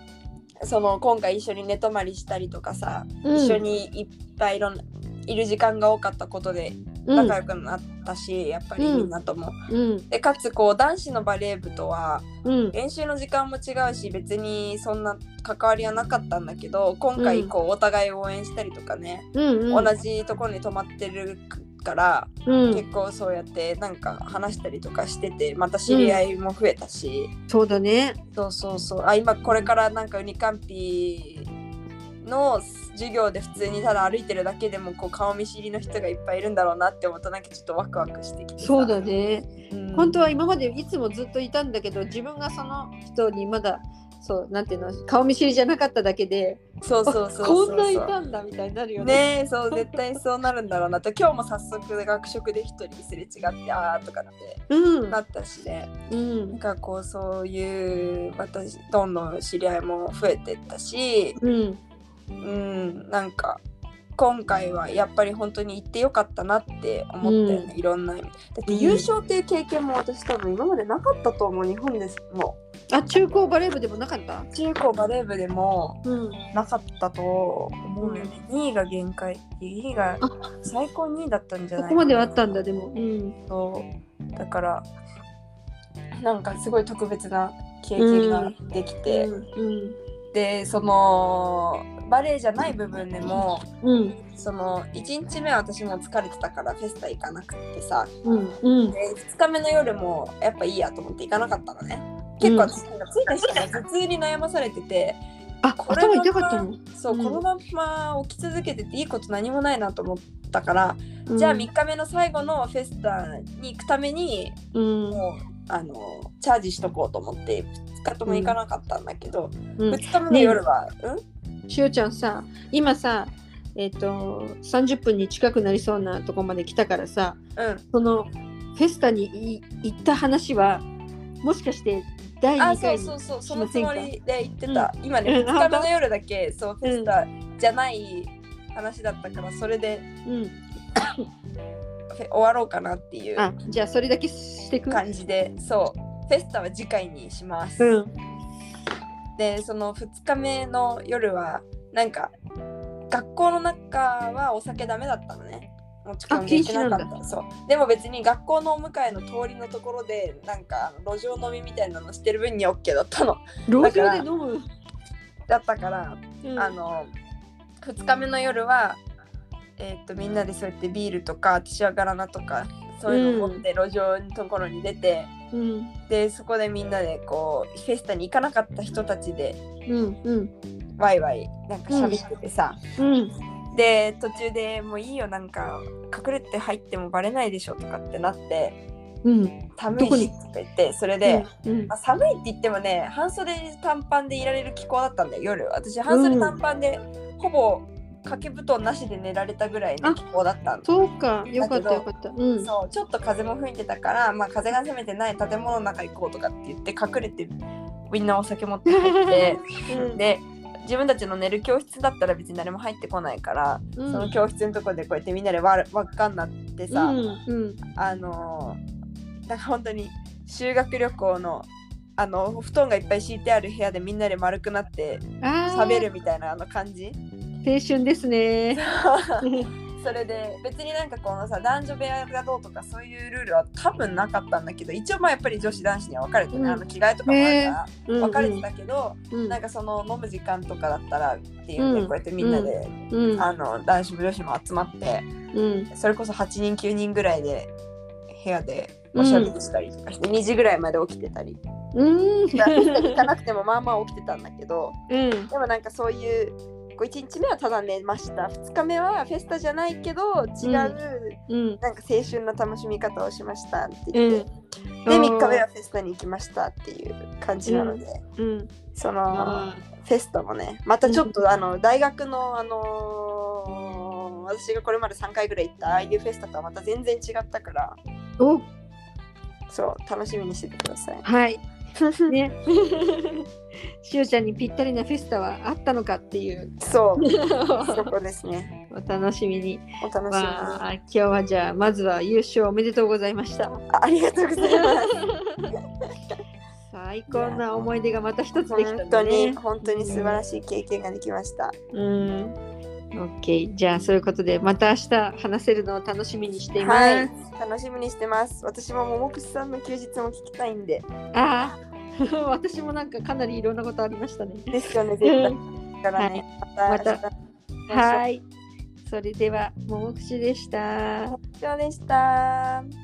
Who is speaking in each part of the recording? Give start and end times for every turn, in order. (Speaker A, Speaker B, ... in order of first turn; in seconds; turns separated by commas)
Speaker A: 0.6-9.6, Speaker B: 3.2-3.6, Speaker B: 7.1-7.4, Speaker B: 8.8-9.1, Speaker B: 9.7-10.1, Speaker A: 10.1-27.3, Speaker B: 12.4-12.8, Speaker B: 17.2-17.5, Speaker B: 19.4-19.9, Speaker B: 22.5-22.9, Speaker B: 25.9-26.2, Speaker B: 27.5-28.2, Speaker A: 28.4-31.5, Speaker A: 32.2-38.9, Speaker B: 38.6-50.0, Speaker A: 39.7-40.2, Speaker A: 46.8-48.1, Speaker A: 49.0-55.9, Speaker B: 54.7-55.2, Speaker B: 56.1-56.6, Speaker A: 56.5-61.4, Speaker B: 61.4-61.8, Speaker A: 62.4-63.6, Speaker A: 64.2-72.6, Speaker B: 67.2-67.7, Speaker B: 68.7-69.1, Speaker B: 72.9-74.5, Speaker A: 74.5-76.0, Speaker B: 76.0-76.4, Speaker A: 76.5-82.3, Speaker B: 78.0-78.3, Speaker B: 81.8-83.4, Speaker A: 83.5-84.9, Speaker A: 86.2-89.3, Speaker B: 88.0-88.5, Speaker B: 89.1-90.0, Speaker A: 90.3-93.6, Speaker B: 93.8-94.2, Speaker A: 94.3-98.1, Speaker B: 98.2-99.0, Speaker A: 98.9-105.2, Speaker B: 102.4-102.7, Speaker B: 105.6-107.4, Speaker A: 105.8-114.6, Speaker B: 111.3-111.7, Speaker B: 114.7-115.2, Speaker A: 115.1-121.2, Speaker B: 118.3-118.6, Speaker B: 119.8-120.6, Speaker B: 121.7-127.4, Speaker A: 127.6-127.8, Speaker B: 127.9-130.8, Speaker B: 131.4-134.1, Speaker A: 132.6-140.1, Speaker B: 134.7-135.9, Speaker B: 136.8-137.1, Speaker B: 140.3-141.1, Speaker A: 142.1-143.5, Speaker B: 143.4-145.0, Speaker A: 144.9-147.9, Speaker B: 147.8-148.1, Speaker A: 149.4-152.3, Speaker A: 153.1-164.3, Speaker B: 156.3-157.1, Speaker B: 163.7-164.7, Speaker A: 165.5-167.1, Speaker B: 166.4-166.8, Speaker A: 167.8-169.0, Speaker A: 169.8-175.3, Speaker B: 173.1-173.7, Speaker B: 175.5-175.9, Speaker A: 176.1-179.6, Speaker B: 179.9-180.5, Speaker A: 181.0-182.8, Speaker B: 181.9-182.2, Speaker B: 183.0-183.3, Speaker A: 183.7-188.8, Speaker B: 189.2-190.3, Speaker A: 189.8-200.9, Speaker B: 191.2-191.9, Speaker B: 196.1-196.6, Speaker B: 200.8-202.7, Speaker A: 201.6-202.1, Speaker A: 202.6-207.5, Speaker A: 208.1-217.2, Speaker B: 208.9-210.2, Speaker B: 214.0-214.3, Speaker B: 216.9-217.8, Speaker A: 218.0-218.8, Speaker A: 219.5-227.2, Speaker B: 225.4-226.1, Speaker B: 227.6-228.9, Speaker A: 228.8-229.4, Speaker B: 229.4-229.7, Speaker A: 230.0-245.3, Speaker B: 236.5-238.7, Speaker B: 239.3-239.6, Speaker B: 241.8-243.5, Speaker B: 245.5-245.9, Speaker A: 245.9-247.7, Speaker A: 248.3-251.6, Speaker B: 249.2-249.5, Speaker B: 251.9-253.2, Speaker A: 252.6-255.0, Speaker B: 255.1-255.5, Speaker A: 255.5-264.4, Speaker B: 260.6-261.0, Speaker B: 261.5-261.8, Speaker B: 264.1-264.5, Speaker B: 265.1-265.6, Speaker A: 265.1-268.2, Speaker B: 267.7-268.7, Speaker A: 268.9-278.0, Speaker B: 269.3-269.9, Speaker B: 271.1-271.4, Speaker B: 278.4-278.7, Speaker A: 279.7-281.2, Speaker B: 281.2-281.6, Speaker A: 282.0-282.4, Speaker B: 282.3-283.4, Speaker B: 284.0-288.1, Speaker A: 286.8-287.3, Speaker A: 287.9-288.7, Speaker B: 288.9-293.8, Speaker A: 290.0-290.8, Speaker A: 293.9-295.2, Speaker B: 294.6-295.7, Speaker B: 296.9-300.4, Speaker A: 297.3-297.6, Speaker A: 298.7-301.7, Speaker B: 301.9-302.6, Speaker B: 303.1-307.3, Speaker A: 306.8-311.1, Speaker B: 311.3-314.7, Speaker A: 314.7-317.3, Speaker B: 315.2-315.6, Speaker B: 316.2-317.2, Speaker A: 317.9-318.2, Speaker B: 317.9-318.4, Speaker B: 319.1-321.4, Speaker A: 321.3-322.9